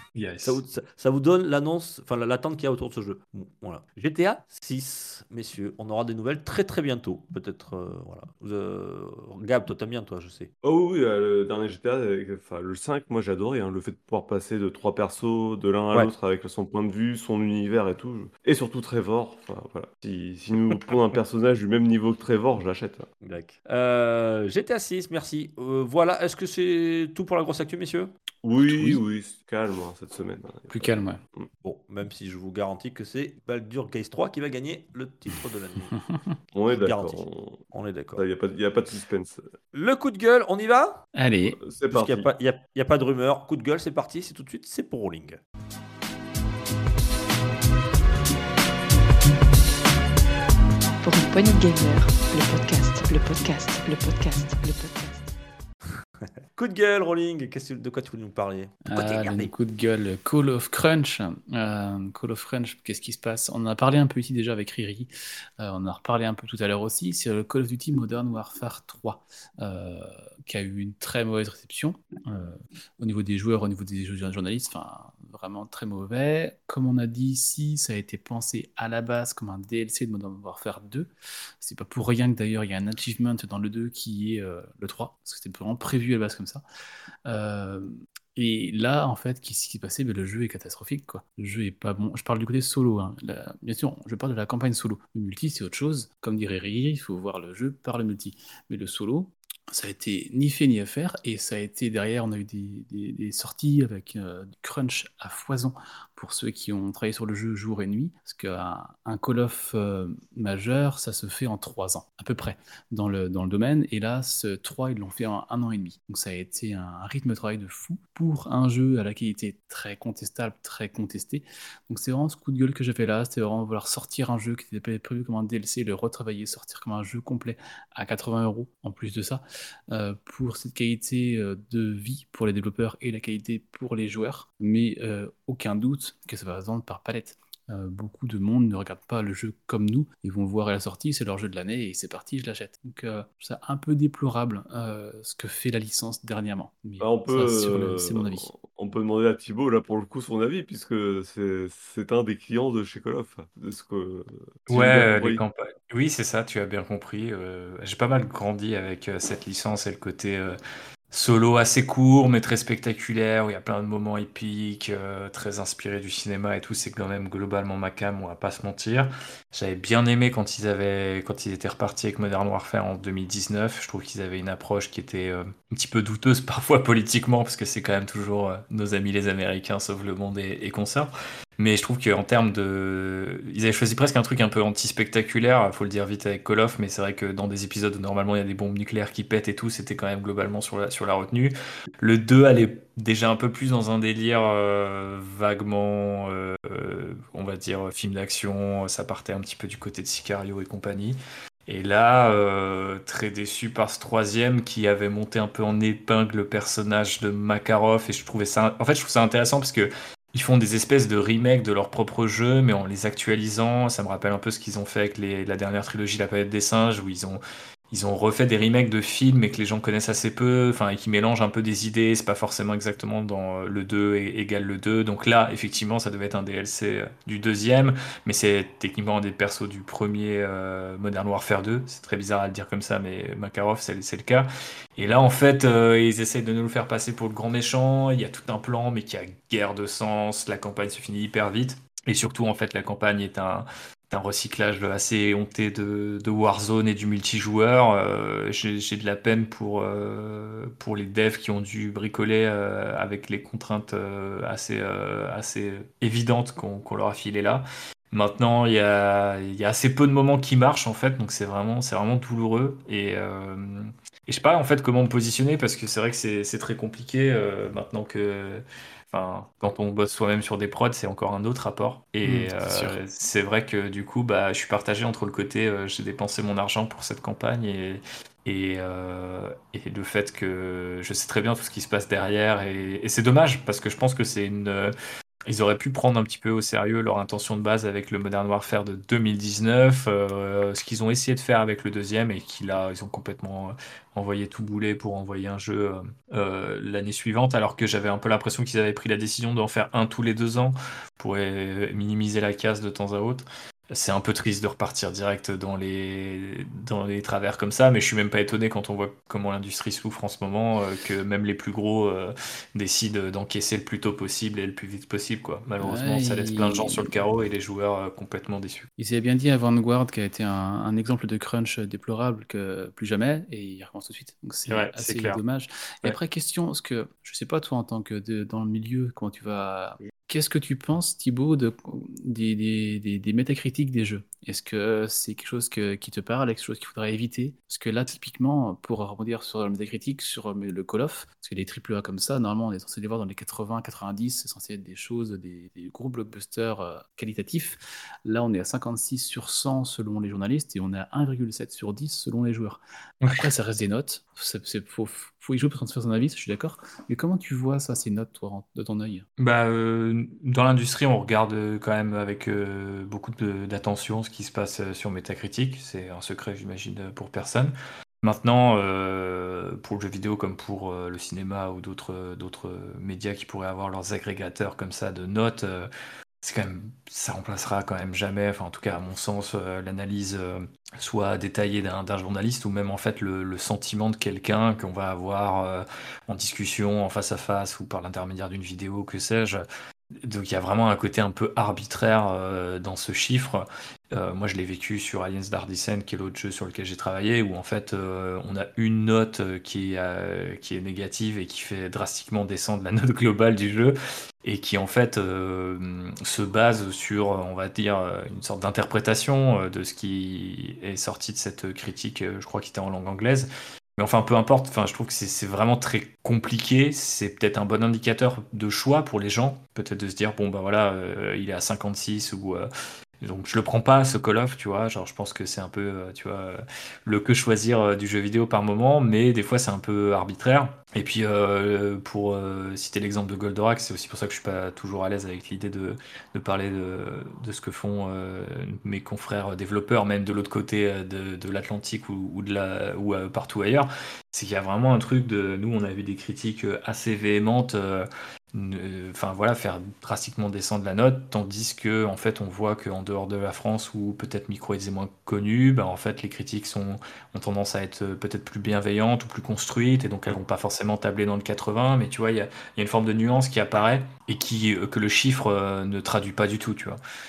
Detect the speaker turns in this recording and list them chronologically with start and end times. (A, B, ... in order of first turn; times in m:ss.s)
0:00.2-0:00.6 A
0:00.4-0:10.5 B
0:10.6-0:23.1 C
0:23.2-0:28.1 B
0:28.4-0:31.5 C
0:28.6-0:29.0 D
0:30.7-0:31.2 D
0:31.6-0:36.0 B
0:36.5-0:37.6 C
0:36.7-0:38.2 B
0:38.2-0:39.5 C
0:39.7-0:41.0 B
0:41.2-0:41.6 D
0:41.4-0:42.3 C
0:41.9-0:45.4 B
0:51.0-0:55.3 E
0:56.2-0:59.5 B
0:58.9-1:26.6 D
1:27.3-2:28.5 D
2:27.0-2:35.4 C
2:34.7-2:40.6 A
2:41.1-3:37.4 A
3:37.9-4:44.9 A
4:32.2-4:33.0 D
4:45.5-5:18.9 A
5:15.8-5:17.2 D
5:19.0-5:59.3 D
5:24.7-5:25.4 A
5:53.2-5:53.5 A
5:59.4-6:15.9 A
6:16.4-6:29.6 A
6:30.2-7:02.7 A
7:03.2-7:47.0 A